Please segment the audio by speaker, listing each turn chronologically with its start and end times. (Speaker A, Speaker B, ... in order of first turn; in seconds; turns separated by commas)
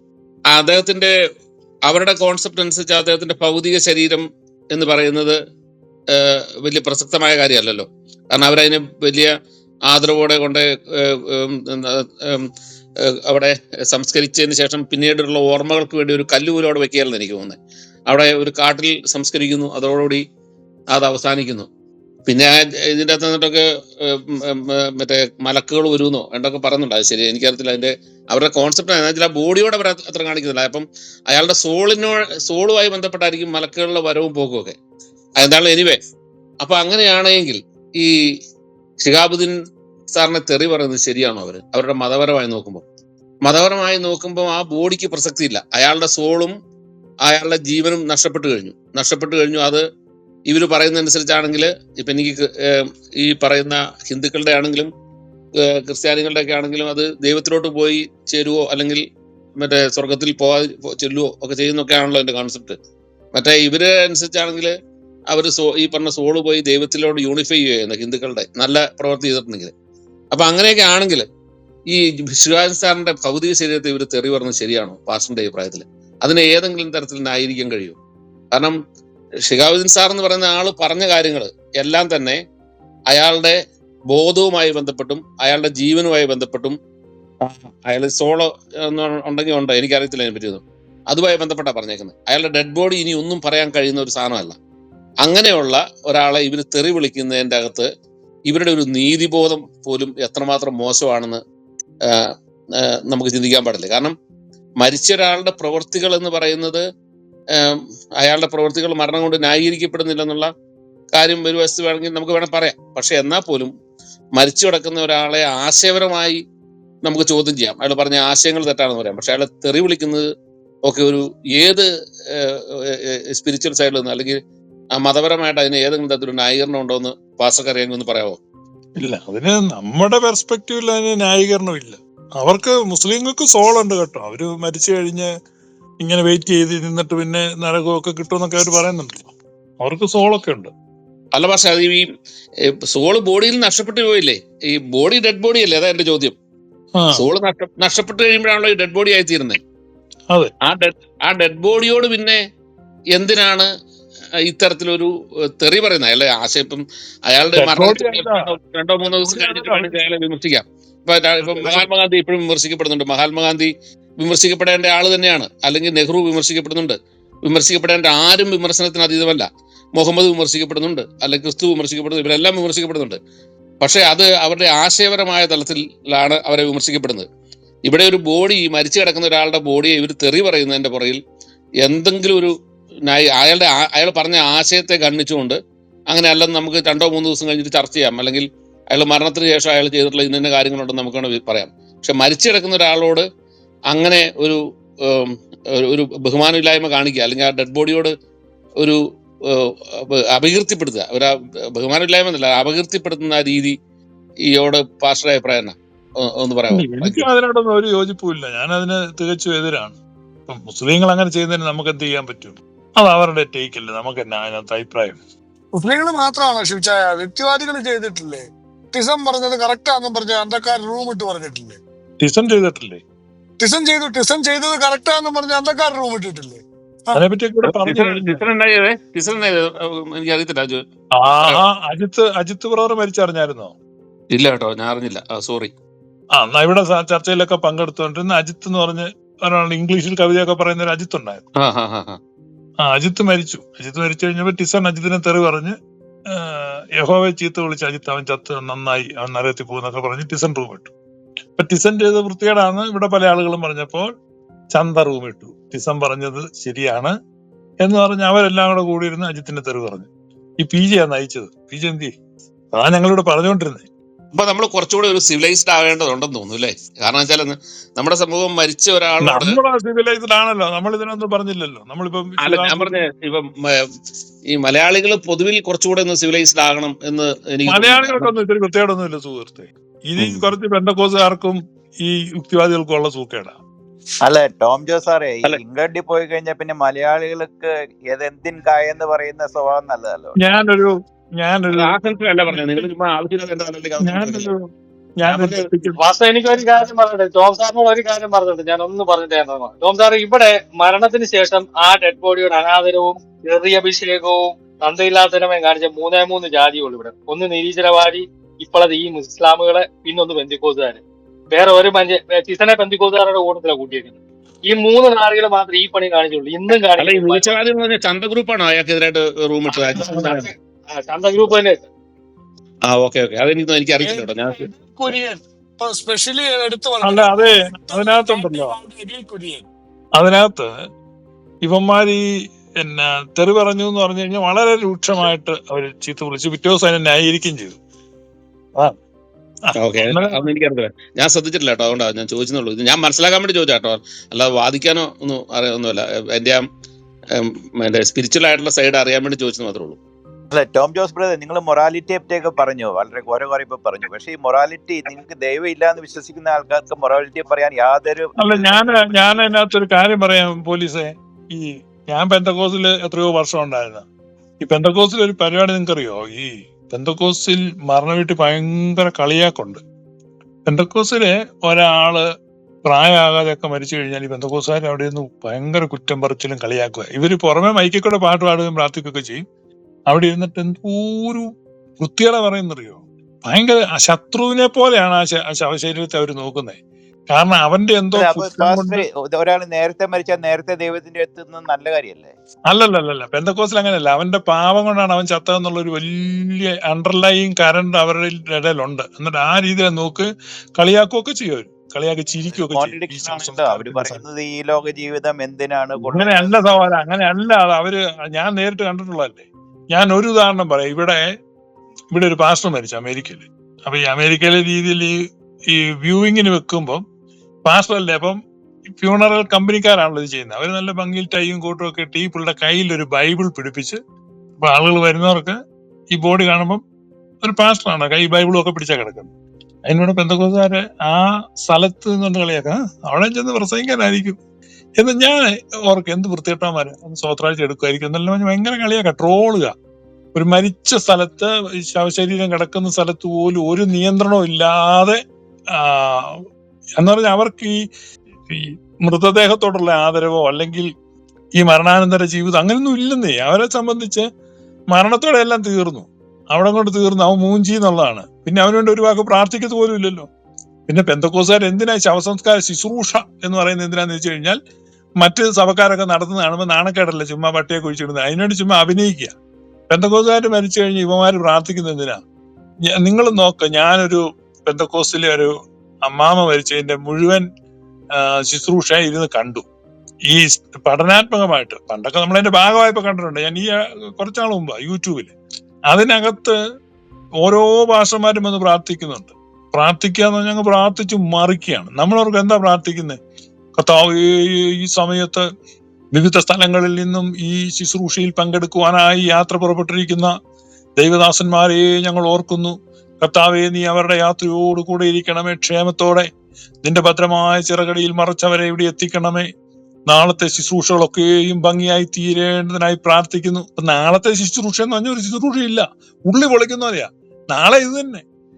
Speaker A: 0.5-1.1, Speaker A: 1.9-5.4, Speaker A: 6.1-9.3, Speaker A: 9.9-12.4, Speaker A: 13.3-17.6, Speaker A: 18.1-20.2, Speaker A: 20.9-21.7, Speaker A: 22.3-34.8, Speaker A: 35.4-36.0, Speaker A: 36.6-38.1, Speaker A: 39.0-39.5, Speaker A: 40.1-42.8, Speaker A: 43.4-46.5, Speaker A: 47.2-49.8, Speaker A: 50.5-54.9, Speaker A: 55.6-59.0, Speaker A: 59.6-62.8, Speaker A: 63.4-64.7, Speaker A: 65.3-69.7, Speaker A: 70.3-71.2, Speaker A: 71.9-78.0, Speaker A: 78.5-78.8, Speaker A: 79.5-82.4, Speaker A: 83.1-83.6, Speaker A: 84.1-86.8, Speaker A: 87.4-94.6, Speaker A: 95.2-97.9, Speaker A: 98.5-101.4, Speaker A: 103.1-104.1, Speaker A: 104.8-106.8, Speaker A: 107.6-110.5, Speaker A: 111.1-113.7, Speaker A: 114.4-116.4, Speaker A: 117.0-120.2, Speaker A: 120.9-124.4, Speaker A: 125.0-128.4, Speaker B: 129.0-135.3, Speaker B: 136.0-139.2, Speaker B: 139.8-140.7, Speaker A: 141.3-142.1, Speaker A: 142.9-146.4, Speaker B: 147.0-147.2, Speaker A: 147.2-149.6, Speaker A: 150.7-152.4, Speaker A: 153.1-153.7, Speaker A: 154.4-173.2, Speaker B: 157.6-158.5, Speaker B: 159.1-159.9, Speaker B: 161.4-161.9, Speaker A: 173.8-177.3, Speaker A: 177.9-181.2, Speaker A: 181.8-182.5, Speaker A: 183.1-185.6, Speaker A: 186.1-193.2, Speaker A: 193.9-198.1, Speaker A: 199.5-203.8, Speaker A: 204.5-207.3, Speaker B: 206.7-215.2, Speaker C: 215.8-221.8, Speaker B: 222.2-223.0, Speaker C: 223.6-227.2, Speaker B: 227.2-228.4, Speaker A: 227.7-230.8, Speaker B: 231.2-233.8, Speaker A: 234.3-235.7, Speaker B: 236.3-241.4, Speaker A: 241.6-242.2, Speaker B: 242.8-245.7, Speaker B: 246.3-250.9, Speaker B: 251.6-254.1, Speaker B: 254.7-257.1, Speaker B: 257.8-260.1, Speaker B: 260.6-262.1, Speaker B: 262.7-263.9, Speaker A: 264.3-269.6, Speaker B: 269.2-273.0, Speaker A: 272.4-273.8, Speaker A: 274.5-278.3, Speaker B: 277.7-283.6, Speaker A: 280.2-280.5, Speaker D: 284.2-290.4, Speaker B: 290.4-291.9, Speaker A: 291.7-294.5, Speaker B: 292.5-292.9, Speaker B: 294.0-294.6, Speaker B: 295.2-296.0, Speaker A: 295.2-295.7, Speaker E: 296.0-314.2, Speaker E: 314.7-317.6, Speaker A: 317.0-320.5, Speaker E: 320.0-321.8, Speaker A: 322.9-324.7, Speaker C: 324.0-329.6, Speaker B: 327.0-328.8, Speaker B: 330.1-330.7, Speaker B: 331.6-332.2, Speaker B: 332.8-337.8, Speaker B: 339.7-340.4, Speaker A: 339.8-346.6, Speaker A: 347.4-350.0, Speaker D: 350.5-359.5, Speaker B: 358.4-364.1, Speaker B: 364.6-369.8, Speaker B: 370.7-372.2, Speaker B: 372.9-379.4, Speaker B: 380.1-381.5, Speaker B: 382.0-386.8, Speaker B: 387.3-389.1, Speaker D: 388.1-392.4, Speaker B: 392.7-404.2, Speaker D: 402.5-406.7, Speaker B: 406.0-411.2, Speaker B: 412.1-415.1, Speaker B: 415.7-417.0, Speaker B: 417.7-418.4, Speaker B: 419.0-424.0, Speaker B: 424.6-425.6, Speaker B: 426.1-426.8, Speaker B: 427.4-429.3, Speaker B: 429.9-434.4, Speaker B: 435.0-439.7, Speaker B: 440.4-445.2, Speaker B: 445.8-446.4, Speaker B: 447.0-447.7, Speaker B: 448.5-450.9, Speaker B: 451.6-454.2, Speaker B: 454.9-460.3, Speaker B: 460.9-464.6, Speaker B: 465.2-469.3, Speaker B: 469.9-472.2, Speaker B: 473.0-475.5, Speaker B: 476.1-477.4, Speaker B: 478.2-479.6, Speaker B: 480.3-485.3, Speaker B: 485.9-486.6, Speaker B: 487.4-493.2, Speaker B: 493.8-495.4, Speaker B: 496.1-500.3, Speaker B: 501.0-506.3, Speaker B: 506.9-509.5, Speaker B: 510.1-518.2